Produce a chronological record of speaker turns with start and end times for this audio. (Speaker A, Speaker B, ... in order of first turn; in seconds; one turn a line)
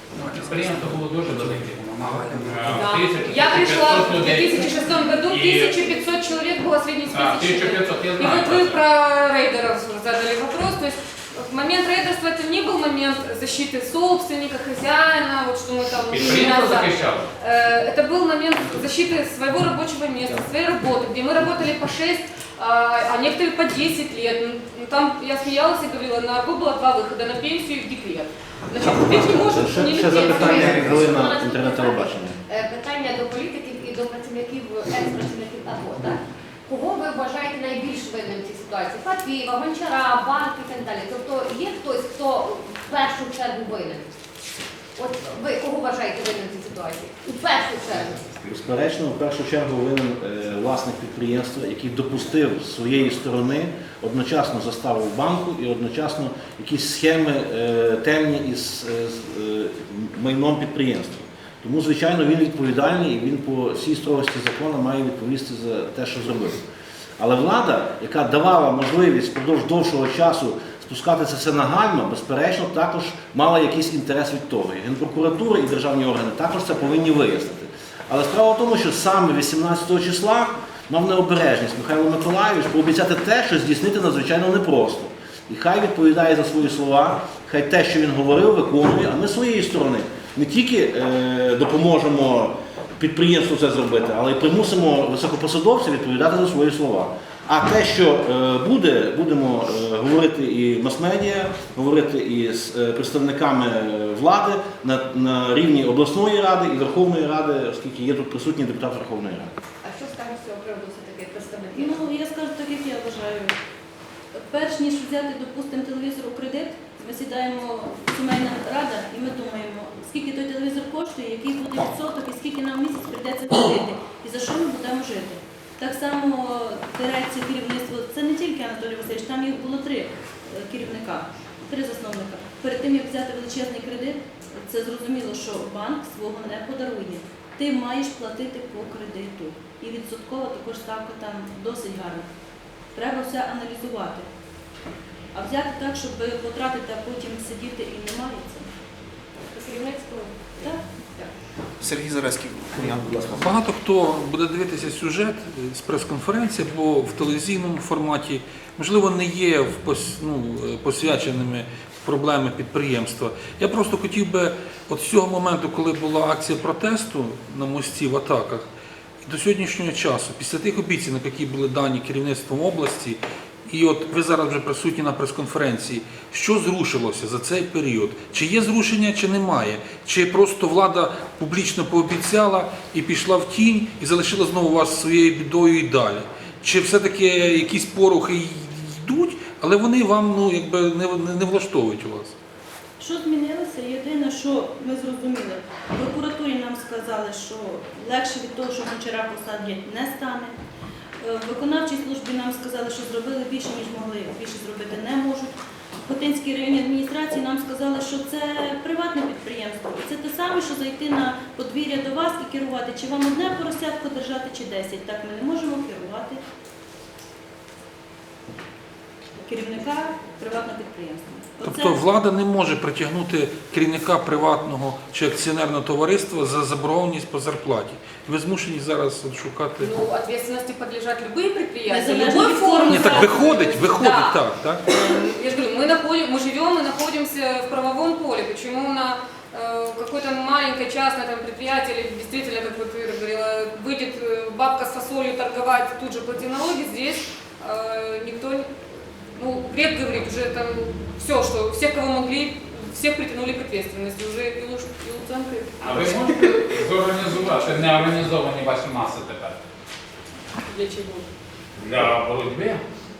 Speaker A: 0.2-2.8
Speaker B: 0.3-5.9
Speaker C: 2.1-2.8
Speaker D: 2.7-30.9
Speaker B: 7.1-8.8
Speaker B: 16.1-17.3
Speaker E: 28.9-32.4
Speaker F: 30.0-44.1
Speaker F: 45.0-48.3
Speaker E: 48.4-66.6
Speaker E: 67.2-109.5
Speaker F: 109.8-112.0
Speaker G: 111.8-113.5
Speaker G: 114.3-142.3
Speaker G: 142.9-144.3
Speaker G: 145.3-148.7
Speaker F: 149.5-151.3
Speaker A: 151.8-153.6
Speaker C: 153.3-168.7
Speaker C: 169.2-192.3
Speaker G: 193.0-200.6
Speaker G: 201.2-205.5
Speaker G: 206.1-216.4
Speaker G: 219.4-222.0
Speaker C: 221.6-229.9
Speaker D: 229.8-248.7
Speaker G: 231.9-233.7
Speaker C: 232.9-234.8
Speaker D: 249.4-256.0
Speaker B: 255.8-259.6
Speaker D: 260.7-261.3
Speaker B: 261.8-262.8